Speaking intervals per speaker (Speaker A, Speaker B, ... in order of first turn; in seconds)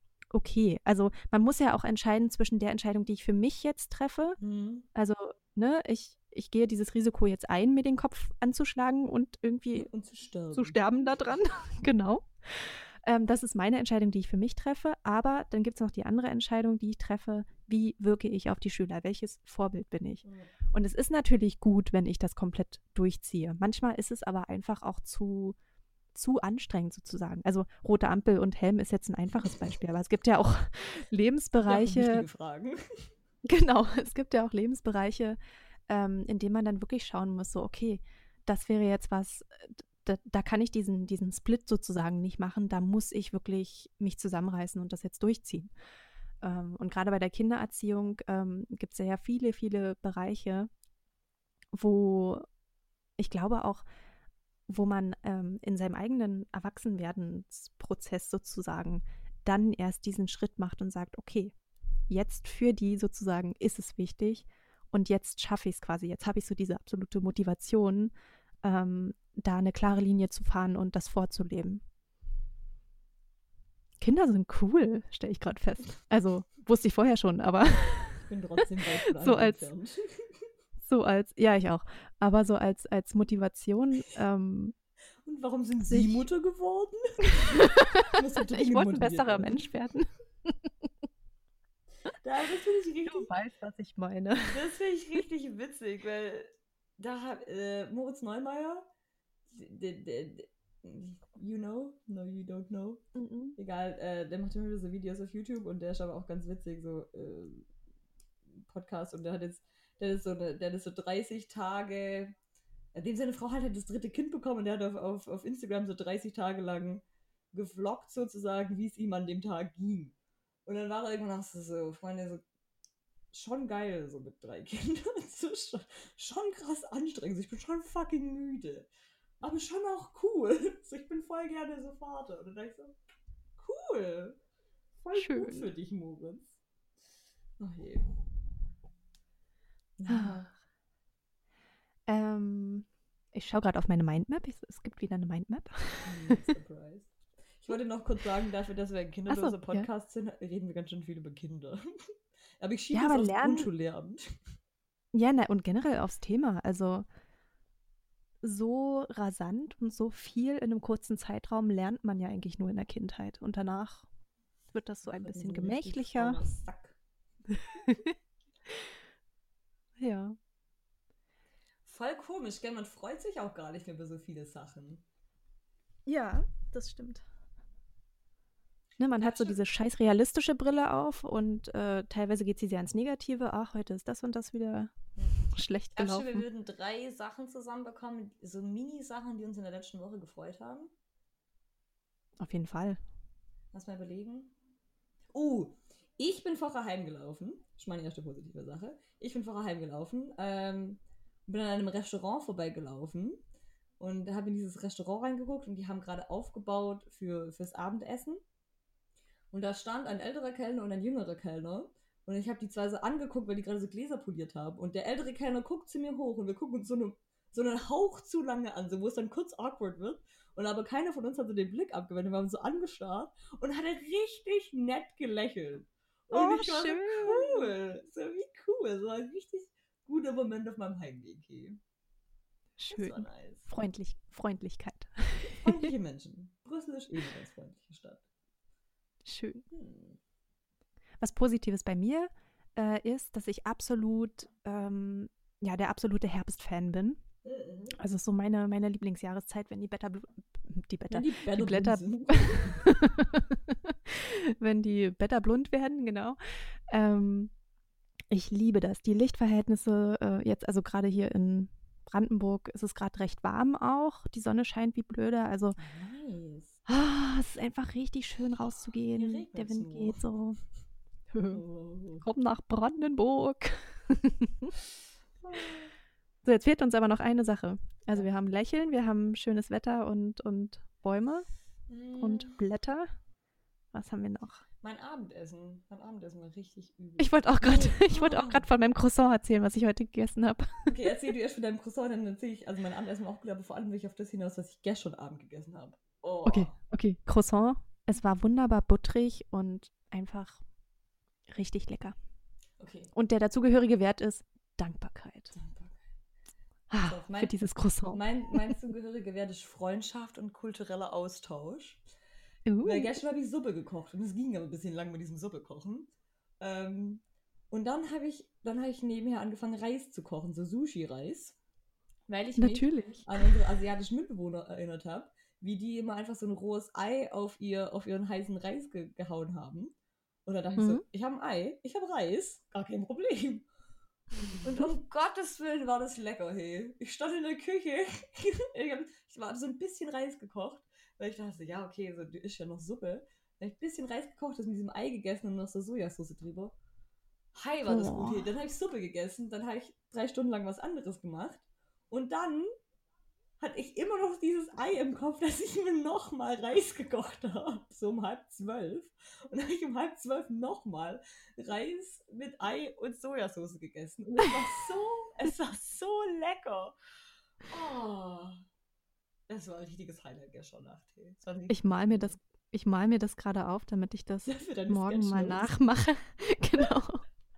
Speaker A: 0.3-4.4, 4.9-9.9, 10.5-25.6, 26.1-32.2, 33.5-35.4, 35.9-45.7, 46.4-50.7, 51.7-52.5, 53.2-53.8, 54.7-61.5, 62.1-68.1, 68.6-71.8, 74.0-78.2, 78.9-79.7, 80.8-84.7, 85.9-86.2, 87.6-90.7, 93.0-94.7, 103.1-103.6, 135.1-135.7, 140.1-140.5, 142.1-146.5, 149.3-149.9, 152.9-153.7, 155.1-157.0, 158.4-164.1, 164.7-166.4, 167.5-168.1, 170.0-170.3, 176.1-177.2, 179.0-184.9, 185.5-186.4, 192.4-193.0, 226.3-227.7, 232.8-235.9, 239.2-239.6, 241.2-247.2, 247.9-257.5, 258.3-265.8, 266.9-270.6, 271.3-271.6, 272.2-274.7, 276.4-281.4, 282.2-283.1, 283.9-284.6, 287.2-291.1, 296.4-300.6, 301.5-302.1, 303.1-305.5, 306.9-308.7, 312.6-313.1, 322.6-323.3, 330.8-331.0, 347.9-348.5, 371.7-377.2
Speaker B: 4.4-4.8, 9.8-10.8, 20.2-20.5, 31.6-33.1, 78.2-80.5, 85.2-89.6, 92.2-93.3, 94.5-98.8, 99.5-103.0, 103.6-107.7, 108.5-112.3, 112.9-122.4, 123.3-128.9, 129.4-132.9, 133.6-134.4, 134.9-136.6, 137.6-138.1, 140.0-140.4, 146.0-154.4, 165.1-166.9, 171.8-175.0, 179.2-179.6, 185.9-190.9, 193.7-194.5, 195.3-203.4, 204.0-208.4, 209.5-231.8, 232.9-233.7, 235.4-238.2, 239.7-240.2, 247.4-247.9, 251.1-253.0, 265.8-266.8, 269.1-270.3, 271.5-272.2, 275.4-275.9, 281.9-282.5, 284.8-288.6, 290.9-296.7, 302.8-303.1, 305.5-306.0, 307.0-307.5, 308.1-312.0, 312.8-321.6, 322.3-329.9, 330.4-333.7, 334.6-346.7, 347.5-352.7, 353.6-366.9, 367.6-368.6, 369.5-372.4, 374.4-375.7